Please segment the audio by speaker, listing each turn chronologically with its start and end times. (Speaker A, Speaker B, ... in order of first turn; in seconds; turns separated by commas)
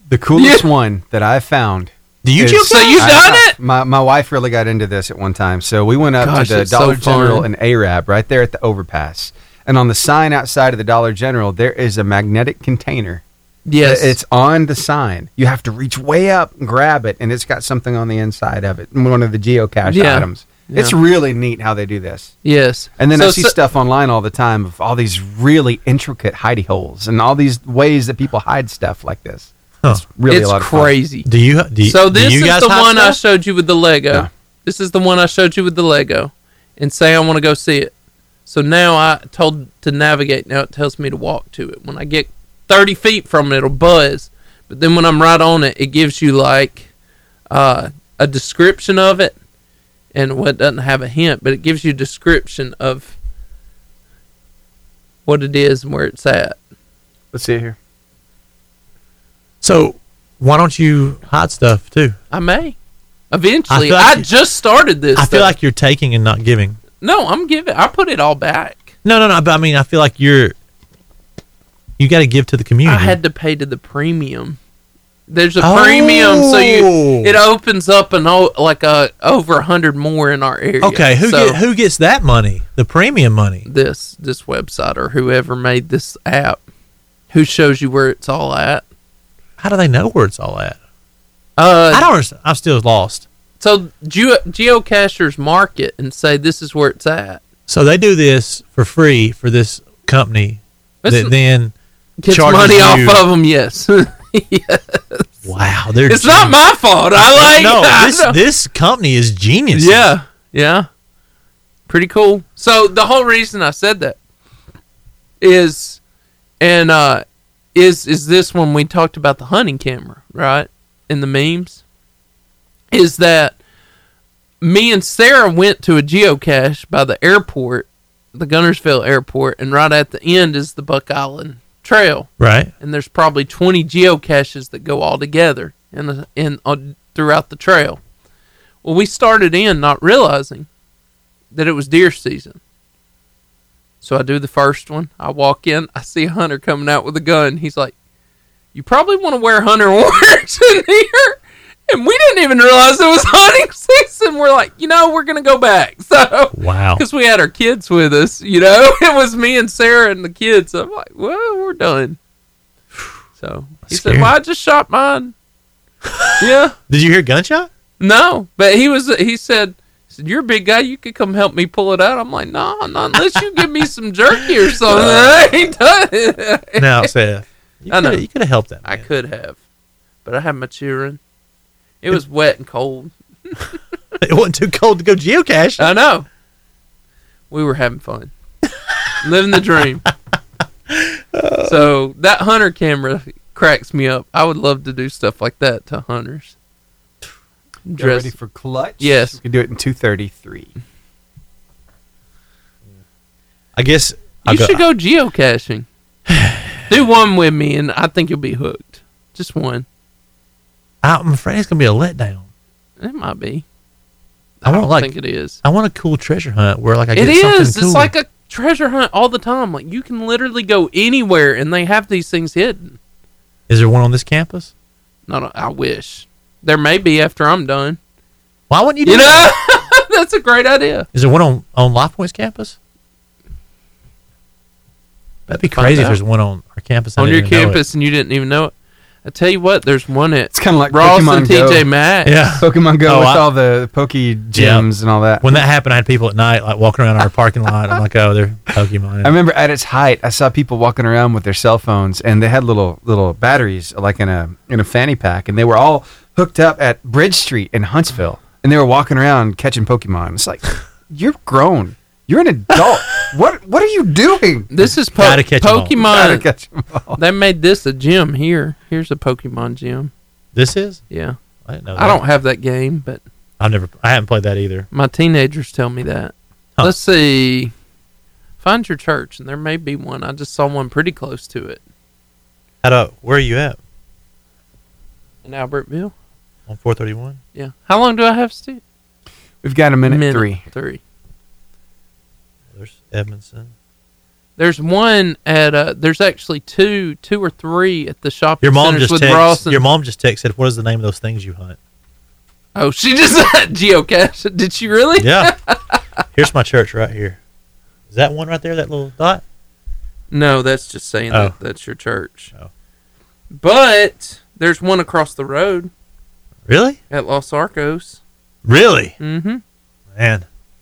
Speaker A: 0.1-13.2, Speaker B: 0.3-0.6, Speaker C: 2.2-3.4, Speaker B: 2.6-3.5, Speaker B: 6.2-7.5, Speaker B: 13.7-14.2, Speaker A: 13.8-22.3, Speaker B: 19.9-21.0, Speaker B: 22.4-23.5, Speaker A: 23.0-30.9, Speaker B: 30.3-31.3, Speaker C: 31.2-33.2, Speaker B: 31.8-37.9, Speaker B: 38.5-46.9, Speaker B: 47.5-49.3, Speaker B: 50.1-53.1, Speaker B: 55.2-56.6, Speaker A: 57.3-57.8, Speaker C: 59.6-62.1, Speaker B: 62.3-62.7, Speaker B: 63.3-65.5, Speaker C: 63.7-64.3, Speaker C: 65.1-66.8, Speaker B: 67.0-68.9, Speaker C: 69.0-70.5, Speaker C: 72.0-73.2, Speaker B: 72.8-74.6, Speaker B: 75.3-81.6, Speaker C: 75.6-77.4, Speaker C: 80.8-83.7, Speaker B: 83.7-86.6, Speaker B: 87.3-88.8, Speaker C: 89.6-90.8, Speaker B: 91.6-92.1, Speaker C: 91.9-93.2, Speaker B: 93.6-97.4, Speaker C: 97.7-101.7, Speaker B: 101.0-101.3, Speaker B: 102.2-105.3, Speaker C: 102.3-103.2, Speaker C: 105.4-106.6, Speaker B: 106.1-108.4, Speaker C: 107.1-110.1, Speaker B: 109.7-110.9, Speaker B: 111.9-114.2, Speaker B: 115.4-116.0, Speaker B: 116.6-117.2, Speaker B: 117.7-121.8, Speaker B: 122.9-123.6, Speaker B: 124.6-138.0, Speaker C: 132.4-132.7, Speaker B: 138.8-140.7, Speaker B: 141.5-142.6, Speaker B: 144.0-147.9, Speaker B: 148.7-162.2, Speaker C: 156.5-157.0, Speaker B: 163.4-165.3, Speaker C: 163.9-164.3, Speaker C: 166.1-167.7, Speaker B: 166.4-166.7, Speaker B: 168.0-177.1, Speaker C: 173.3-173.6, Speaker C: 174.8-175.5, Speaker C: 176.8-179.0, Speaker B: 177.9-178.2, Speaker B: 178.8-179.6, Speaker B: 180.2-181.2, Speaker B: 182.0-183.6, Speaker C: 184.2-185.9, Speaker B: 185.8-186.3, Speaker B: 187.5-188.3, Speaker B: 189.2-190.1, Speaker C: 190.9-191.9, Speaker B: 191.6-196.5, Speaker B: 197.8-198.3, Speaker A: 198.0-200.7, Speaker B: 199.0-199.4, Speaker C: 203.7-204.8, Speaker B: 204.4-205.9, Speaker C: 206.3-206.8, Speaker B: 206.9-209.8, Speaker C: 211.0-212.5, Speaker B: 213.0-213.6, Speaker B: 214.6-215.6, Speaker C: 214.6-218.1, Speaker B: 217.1-223.0, Speaker C: 223.7-224.7, Speaker B: 225.3-228.0, Speaker C: 228.7-229.5, Speaker B: 229.0-231.1, Speaker C: 231.1-232.7, Speaker C: 235.5-237.8, Speaker B: 235.7-236.2, Speaker B: 237.2-238.7, Speaker B: 239.2-242.3, Speaker A: 240.5-241.9, Speaker C: 242.2-243.5, Speaker A: 242.6-245.6, Speaker C: 244.5-244.9, Speaker C: 245.4-249.3, Speaker A: 249.2-264.7, Speaker B: 264.7-266.4, Speaker C: 265.1-266.0, Speaker A: 266.0-267.2, Speaker B: 267.2-270.1, Speaker C: 270.5-271.0, Speaker B: 271.1-271.4, Speaker C: 271.6-272.2, Speaker B: 271.9-273.2, Speaker C: 273.6-274.9, Speaker B: 274.9-277.7, Speaker B: 278.6-281.8, Speaker C: 282.8-283.8, Speaker B: 285.4-286.1, Speaker C: 286.7-287.4, Speaker B: 287.5-288.8, Speaker A: 289.6-290.6, Speaker B: 290.1-291.0, Speaker C: 292.7-293.7, Speaker B: 294.6-299.8, Speaker C: 298.6-301.8, Speaker B: 302.7-306.0, Speaker C: 305.2-305.5, Speaker C: 306.3-307.4, Speaker C: 308.1-309.4, Speaker B: 310.3-312.5, Speaker B: 313.5-315.9, Speaker C: 316.7-317.0, Speaker B: 317.1-318.2, Speaker C: 318.6-319.1, Speaker B: 319.2-319.6, Speaker C: 320.1-320.4